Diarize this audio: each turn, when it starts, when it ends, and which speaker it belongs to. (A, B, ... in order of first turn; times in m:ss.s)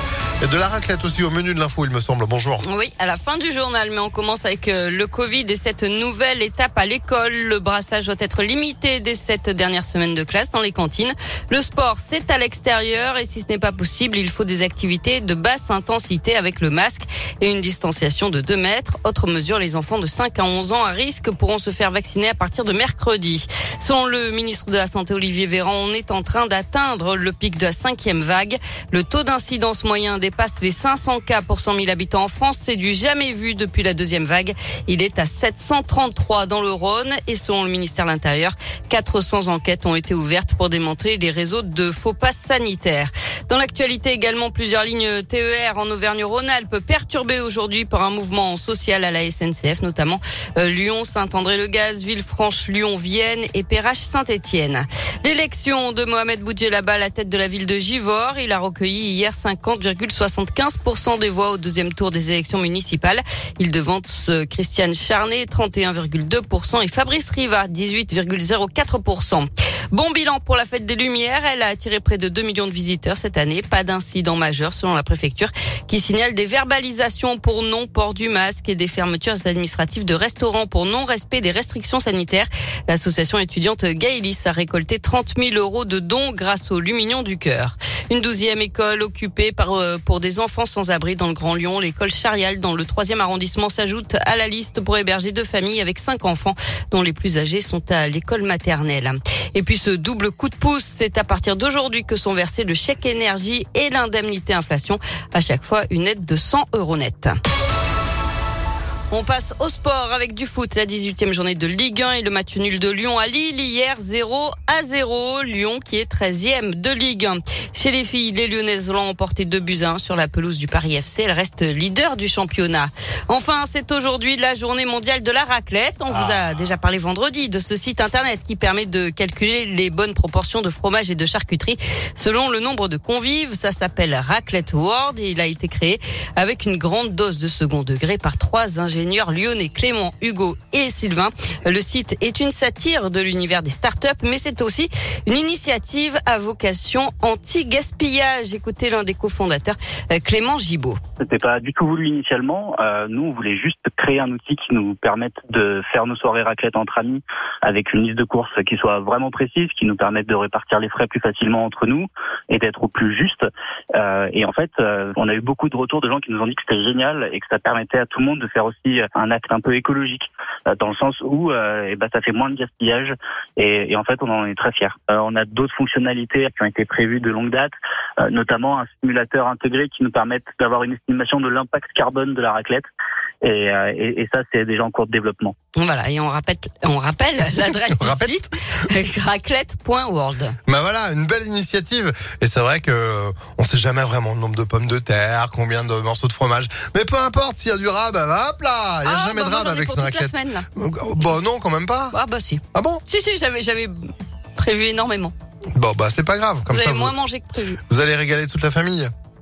0:00.4-0:02.6 A
0:02.6-1:47.3 B
1:49.1-2:31.0 B
2:31.2-3:02.9 C
3:03.4-3:05.5 C
3:05.7-3:10.6 B
3:07.9-3:08.4 A
3:10.7-3:22.1 A
3:19.0-3:20.6 B
3:22.1-3:25.3 B
3:22.7-3:23.0 A
3:25.8-3:27.1 A
3:26.7-3:27.8 B
3:27.9-3:29.1 A